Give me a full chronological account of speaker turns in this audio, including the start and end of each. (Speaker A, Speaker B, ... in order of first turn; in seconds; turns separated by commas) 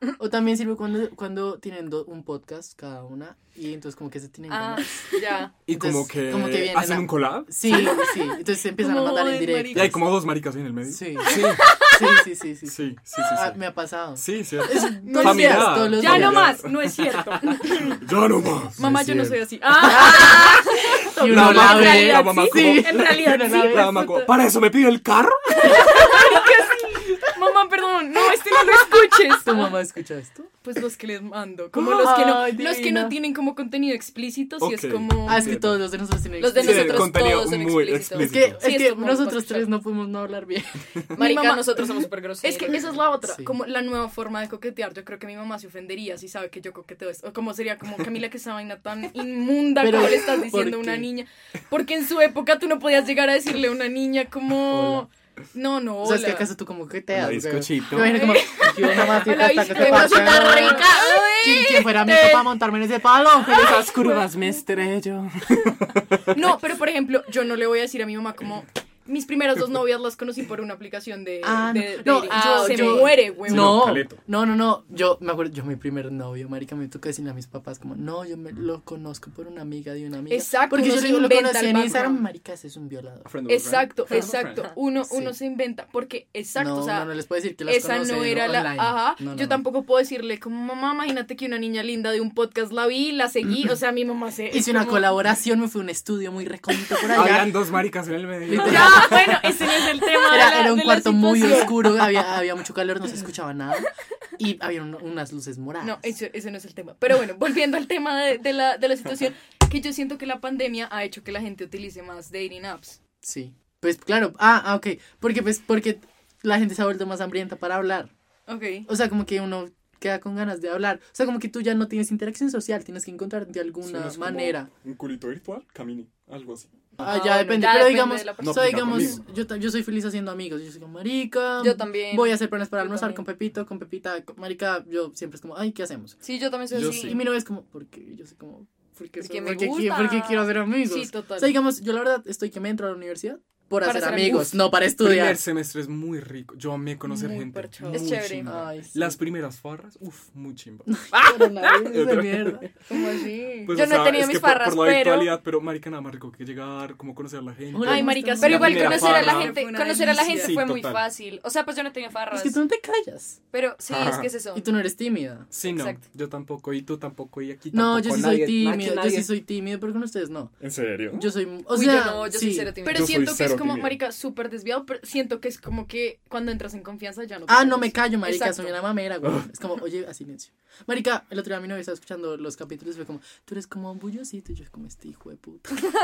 Speaker A: 0.2-5.1, Speaker B: 4.5-5.5, Speaker C: 5.7-8.0, Speaker A: 5.7-10.0, Speaker D: 7.7-10.0, Speaker C: 9.7-11.7, Speaker A: 10.9-16.6, Speaker B: 11.3-12.0, Speaker C: 12.7-13.6, Speaker C: 14.2-17.1, Speaker D: 15.0-18.0, Speaker C: 18.0-19.4, Speaker D: 18.8-24.3, Speaker A: 19.8-20.6, Speaker B: 19.9-20.8, Speaker A: 21.1-24.1, Speaker C: 21.2-26.3, Speaker D: 25.6-29.8, Speaker A: 29.3-30.5, Speaker D: 30.6-35.6, Speaker A: 31.8-33.2, Speaker C: 34.6-35.9, Speaker A: 35.3-37.3, Speaker B: 36.4-38.4, Speaker C: 36.6-38.6, Speaker A: 38.2-40.8, Speaker D: 38.6-39.7, Speaker B: 41.1-42.9, Speaker D: 41.2-56.5, Speaker A: 43.2-43.5, Speaker A: 49.8-51.1, Speaker A: 54.7-55.1, Speaker A: 56.0-63.8, Speaker C: 57.1-58.4, Speaker D: 58.0-61.0, Speaker B: 59.6-62.5, Speaker C: 63.5-66.4, Speaker D: 63.7-64.6, Speaker D: 66.3-74.0, Speaker A: 71.4-83.3, Speaker B: 72.3-73.2, Speaker C: 73.3-74.2, Speaker D: 80.3-82.2, Speaker C: 83.3-84.6, Speaker D: 83.5-87.1, Speaker B: 84.1-84.6, Speaker A: 85.1-85.3, Speaker A: 86.6-89.6, Speaker D: 87.7-95.2, Speaker A: 94.5-97.6, Speaker C: 97.1-99.4, Speaker A: 98.5-99.6, Speaker D: 98.5-102.0, Speaker A: 100.2-106.2, Speaker D: 105.8-113.0, Speaker A: 113.2-118.1, Speaker D: 118.5-118.9, Speaker A: 118.9-124.7, Speaker C: 123.8-126.7, Speaker A: 127.0-136.2, Speaker B: 127.0-129.2, Speaker C: 128.4-129.2, Speaker B: 131.6-133.2, Speaker B: 136.2-137.2, Speaker C: 136.7-137.3, Speaker A: 136.7-145.4, Speaker B: 139.2-140.5, Speaker D: 140.9-141.5, Speaker B: 143.8-144.7, Speaker C: 145.0-151.3, Speaker D: 147.1-148.1, Speaker B: 147.8-148.5, Speaker A: 148.4-149.2, Speaker A: 150.9-152.7, Speaker B: 151.1-151.9, Speaker C: 151.8-152.7, Speaker D: 152.9-153.7, Speaker C: 153.7-161.1, Speaker B: 153.7-155.3, Speaker A: 157.7-159.0, Speaker D: 157.8-160.6, Speaker B: 158.4-162.6, Speaker A: 162.3-163.4, Speaker B: 163.5-164.7, Speaker C: 163.9-164.3, Speaker A: 164.5-165.5, Speaker C: 165.5-169.3, Speaker B: 165.6-166.0, Speaker A: 167.7-170.6, Speaker C: 170.6-171.3, Speaker A: 171.1-172.8, Speaker B: 171.7-173.2, Speaker D: 172.8-178.8, Speaker C: 172.9-174.0, Speaker A: 177.5-185.9